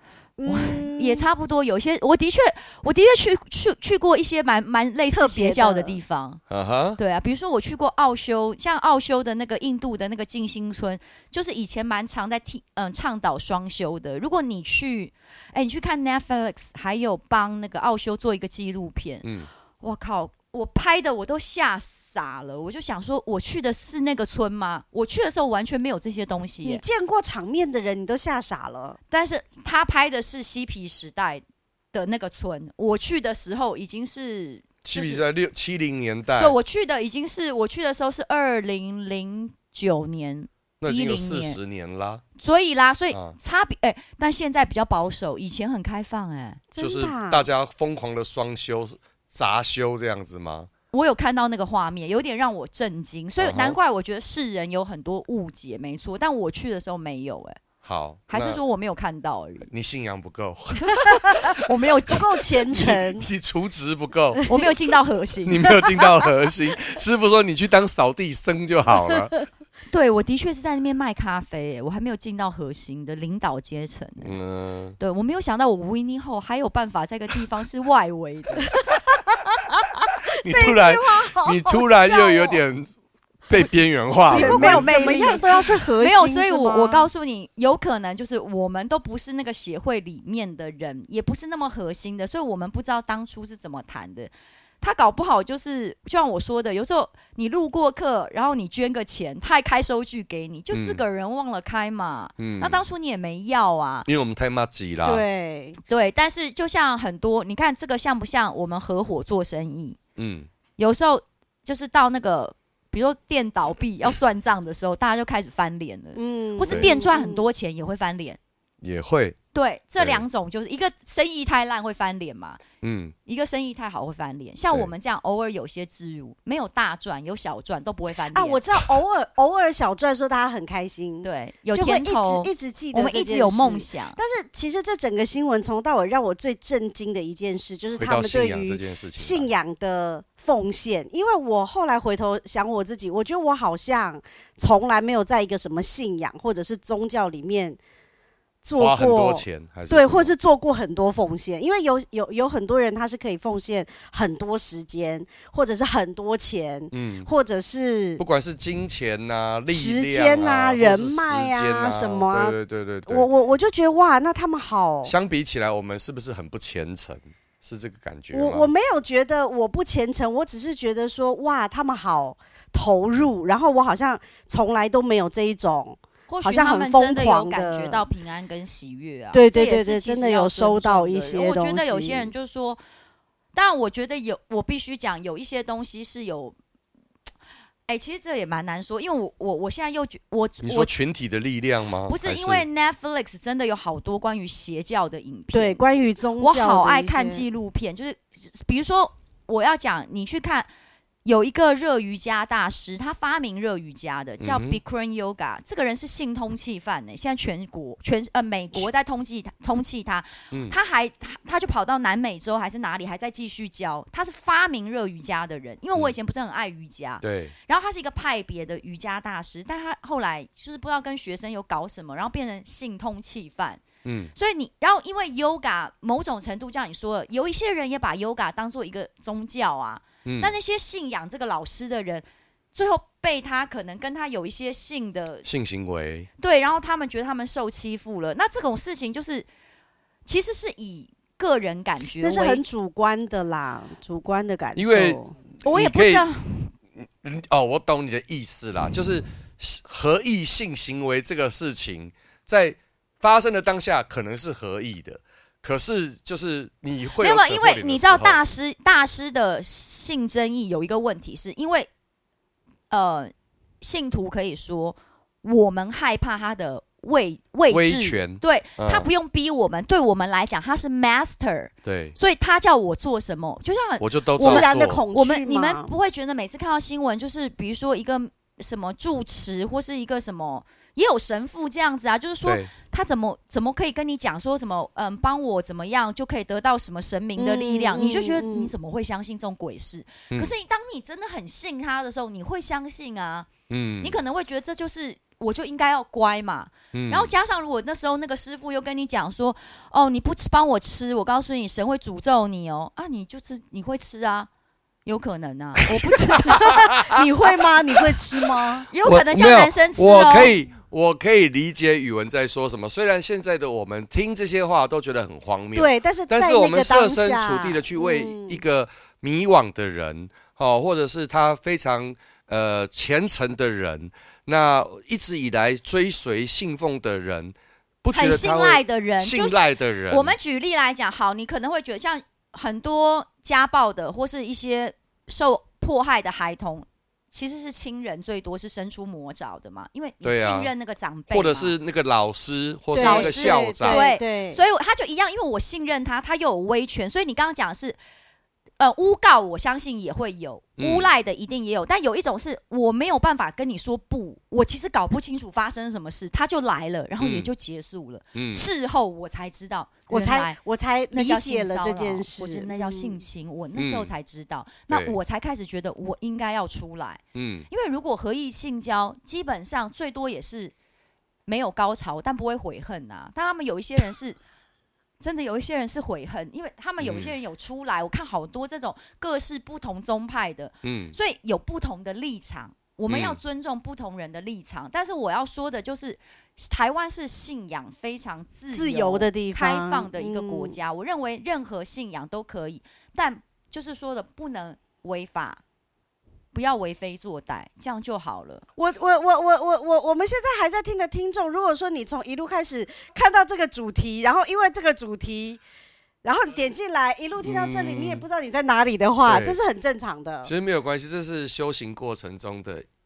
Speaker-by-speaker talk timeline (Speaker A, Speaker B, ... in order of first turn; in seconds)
Speaker A: 0.4-1.3, 5.1-6.0, 26.6-29.0, 46.7-47.5, 62.1-63.3, 64.4-64.8, 65.6-66.1, 78.9-82.6, 84.3-87.1, 105.0-105.8, 116.2-117.5, 128.3-147.8, 148.6-158.2, 159.7-162.6, 163.1-165.1, 168.3-178.1, 179.3-182.3, 195.5-197.4, 242.2-245.3, 274.4-275.9, 287.4-288.7, 306.4-308.9, 315.8-318.6, 342.9-344.6, 360.1-363.2, 388.7-390.8, 398.8-405.6, 406.2-410.5
Speaker B: 0.5-6.4, 7.0-19.3, 19.8-26.8, 29.1-35.2, 36.4-41.6, 42.4-46.6, 50.9-57.6, 58.3-59.7, 61.6-62.3, 64.5-65.7, 69.9-74.3, 75.0-78.7, 84.3-104.1, 105.9-110.0, 110.8-118.4, 119.5-122.6, 123.3-128.6, 131.2-134.2, 176.3-182.8, 183.5-186.6, 187.9-190.9, 192.1-195.8, 196.4-200.7, 201.2-223.8, 224.3-235.5, 236.4-239.5, 240.2-242.6, 245.6-246.7, 257.2-261.9, 262.9-293.5, 294.0-304.5, 305.1-306.6, 308.9-310.5, 328.1-341.8, 343.0-348.0, 348.8-360.6, 361.1-370.7, 371.5-374.4, 375.2-395.6, 396.5-398.6
Speaker C: 6.5-7.0, 19.2-19.5, 34.8-36.6, 40.8-42.2, 43.1-43.4, 46.8-50.7, 53.4-53.8, 57.8-58.6, 59.7-61.6, 62.7-64.4, 65.5-69.3, 74.2-75.0, 80.4-82.9, 83.5-85.6, 100.7-101.0, 102.4-102.8, 104.1-105.2, 110.2-110.5, 118.8-119.4, 120.0-120.2, 122.8-123.1, 138.0-139.5, 148.8-150.3, 156.9-157.3, 158.2-163.3, 165.1-168.7, 190.6-192.7, 204.4-204.8, 217.2-217.5, 224.0-224.3, 230.2-230.5, 235.4-236.3, 244.8-246.3, 247.0-258.4, 267.7-269.1, 271.8-272.1, 274.0-275.0, 282.4-282.7, 293.7-294.2, 296.9-297.3, 306.4-307.2, 308.0-330.4, 340.2-340.7, 341.3-344.1, 350.8-351.1, 357.2-357.5, 358.4-358.6, 363.8-364.1, 364.9-365.2, 367.3-367.7, 377.0-377.3, 380.8-381.2, 383.1-383.4, 407.4-408.2, 409.3-409.6, 410.4-412.9